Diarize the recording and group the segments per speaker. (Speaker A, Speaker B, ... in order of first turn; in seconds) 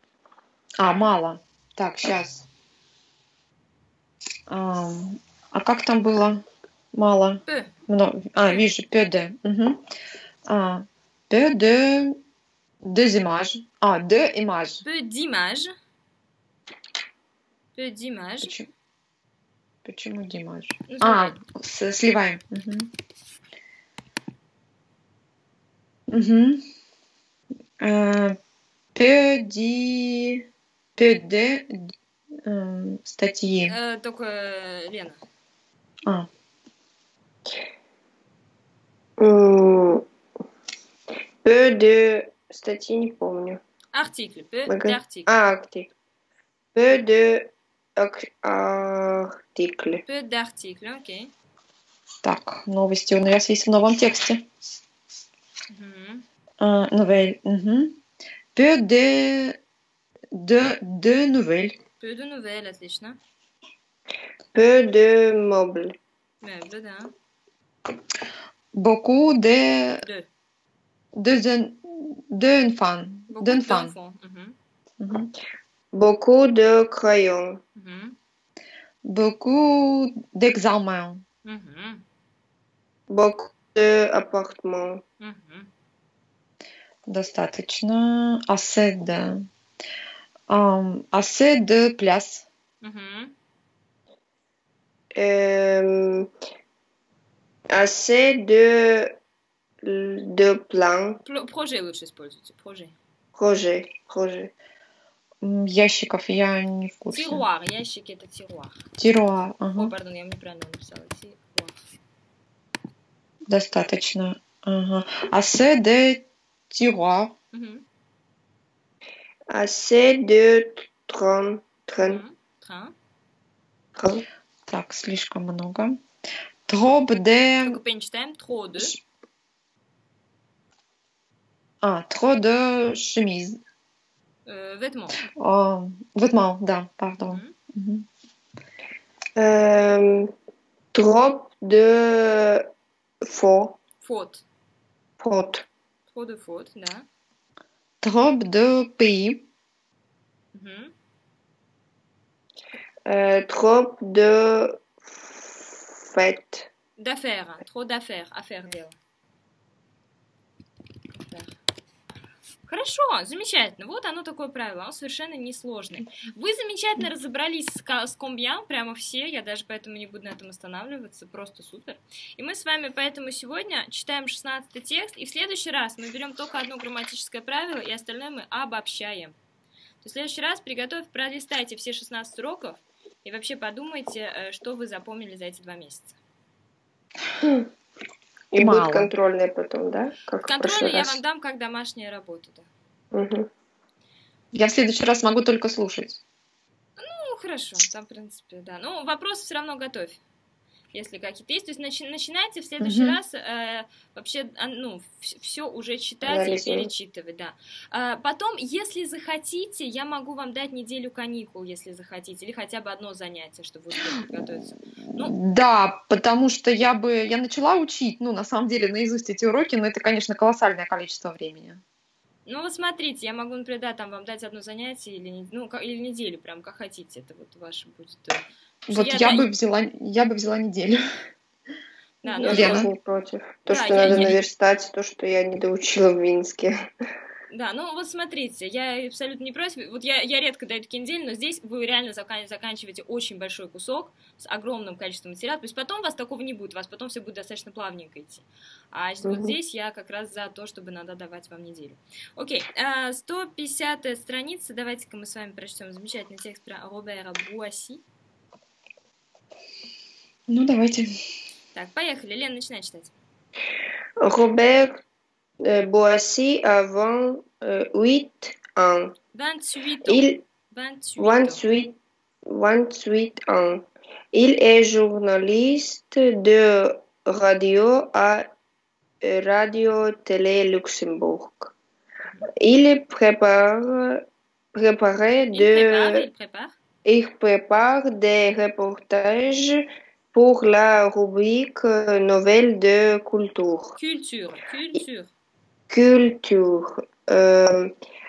Speaker A: 0.8-2.5, 4.5-9.8, 10.5-12.2, 12.8-14.8, 18.4-18.7, 19.8-22.9, 26.1-26.6, 27.8-28.4, 28.9-31.9, 32.4-33.7, 52.2-54.5, 56.6-58.0, 58.5-59.6, 60.3-61.8, 68.7-70.0, 71.1-73.9, 75.0-75.3, 79.0-81.2, 87.1-89.5, 90.5-92.5, 105.4-107.4, 109.0-109.9, 113.5-117.3, 124.7-126.0, 126.7-127.8, 131.8-133.6, 135.3-138.1, 148.0-149.4, 188.6-189.1, 194.5-196.2, 202.8-203.2, 215.2-221.8, 228.9-231.0, 232.4-232.9, 260.5-261.1
Speaker B: 7.5-7.7, 14.8-15.7, 17.7-18.5, 20.9-21.4, 33.7-35.2, 43.9-45.3, 50.0-51.3, 55.7-56.2, 62.0-63.2, 66.4-67.1, 70.0-70.3, 73.3-74.5, 77.8-78.2, 81.4-82.0, 85.2-85.7, 92.8-93.3, 101.2-102.9, 107.1-108.8, 109.7-111.8, 117.5-117.8, 122.0-122.9, 127.6-128.9, 134.4-135.2, 137.2-137.5, 144.0-144.4, 146.1-147.1, 150.5-150.9, 157.0-158.9, 161.1-161.5, 162.7-179.4, 180.0-186.2, 190.4-192.7, 197.0-200.2, 200.9-215.3, 222.4-229.5, 232.2-232.9, 233.7-234.4, 237.5-258.0, 261.7-263.1, 269.3-271.6, 285.5-286.7, 294.0-295.3
Speaker C: 39.2-40.0, 41.4-43.6, 44.7-45.9, 46.7-50.0, 64.5-65.9, 75.9-77.6, 83.1-85.0, 95.1-96.3, 97.7-99.2, 99.8-101.2, 103.3-104.5, 119.5-122.2, 123.9-124.2, 139.3-140.3, 140.9-142.7, 143.2-143.8, 145.2-145.7, 153.1-156.7, 188.5-191.2, 193.1-193.5, 206.2-206.9, 232.2-236.8, 249.2-249.5, 264.2-265.0, 265.6-269.1, 270.0-270.4, 271.2-278.5, 279.2-281.7, 282.6-286.3, 287.0-294.0, 295.9-297.9